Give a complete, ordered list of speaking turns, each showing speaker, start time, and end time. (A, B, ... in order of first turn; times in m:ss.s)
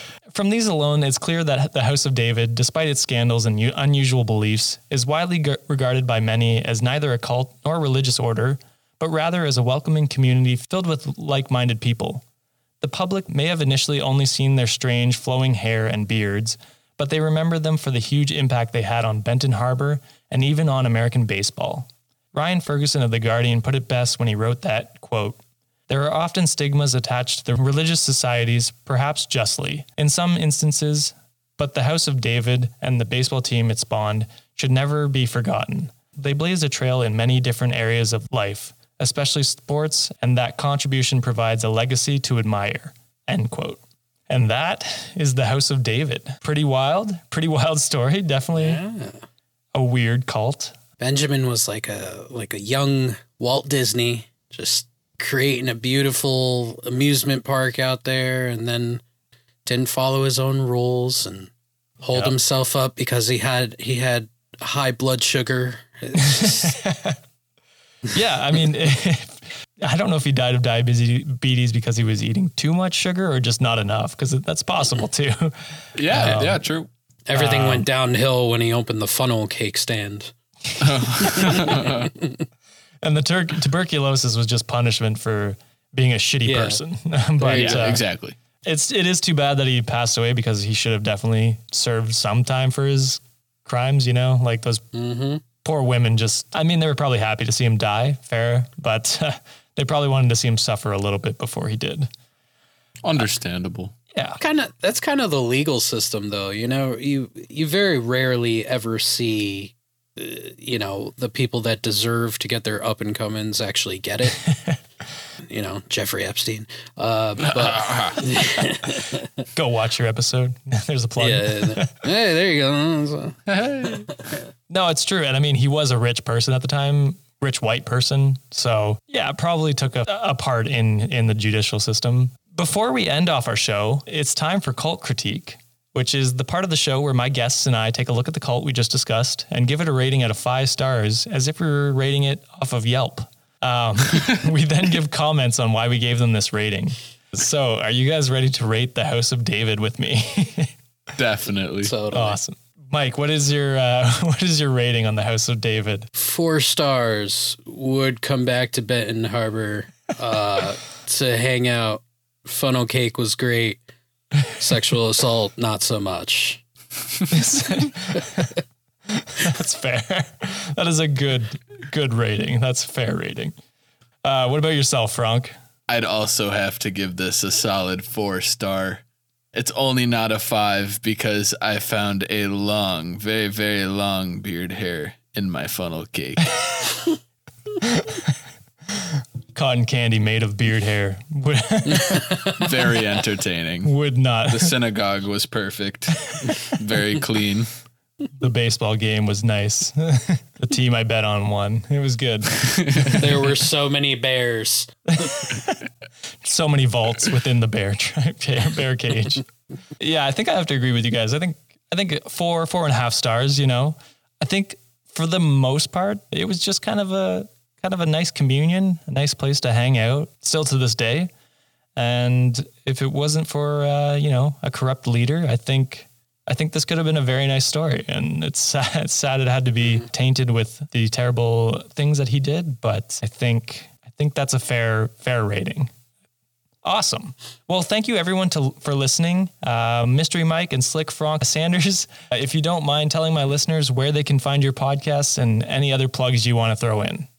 0:00.3-0:12.2 A
0:12.8-0:48.8 A
0:48.5-0:49.2 B
0:49.7-0:50.8 A
0:51.0-0:59.0 B
0:59.6-1:01.5 B
1:02.0-1:06.8 B
1:06.2-1:07.2 A
1:08.1-1:16.6 A
1:16.0-1:16.9 C
1:17.3-1:20.3 B
1:17.3-1:17.9 A
1:20.8-1:22.1 C
1:23.0-1:28.0 A
1:26.4-1:26.8 B
1:27.4-1:28.0 B
1:27.5-1:28.3 C
1:28.6-1:34.8 A
1:34.9-1:35.4 B
1:35.6-1:42.1 A
1:43.0-1:43.9 C
1:44.1-1:44.4 A
1:44.4-1:54.4 B
1:54.5-1:54.8 A
1:55.5-1:59.4 B
1:57.4-1:58.2 C
1:59.5-2:02.0 A
2:01.2-2:03.4 B
2:03.5-2:04.1 C
2:04.7-2:30.7 A
2:31.2-2:31.9 C
2:31.8-2:32.4 B
2:32.1-2:36.1 A
2:36.2-2:43.8 B
2:44.6-2:46.6 B
2:47.3-2:48.5 A
2:49.1-2:53.5 A
2:54.2-2:55.5 A
2:55.9-2:59.0 C
2:59.5-3:06.6 C
3:06.6-3:06.9 A
3:07.8-3:08.3 A
3:09.5-3:12.6 A
3:12.6-3:13.9 C
3:13.8-3:14.7 A
3:14.5-3:17.7 C
3:16.3-3:16.6 A
3:18.4-3:23.2 A
3:22.6-3:23.2 C
3:23.2-3:25.3 B
3:25.2-3:25.8 A
3:26.4-3:29.4 A
3:30.0-3:41.3 A
3:42.0-3:55.9 A
3:56.8-4:07.3 A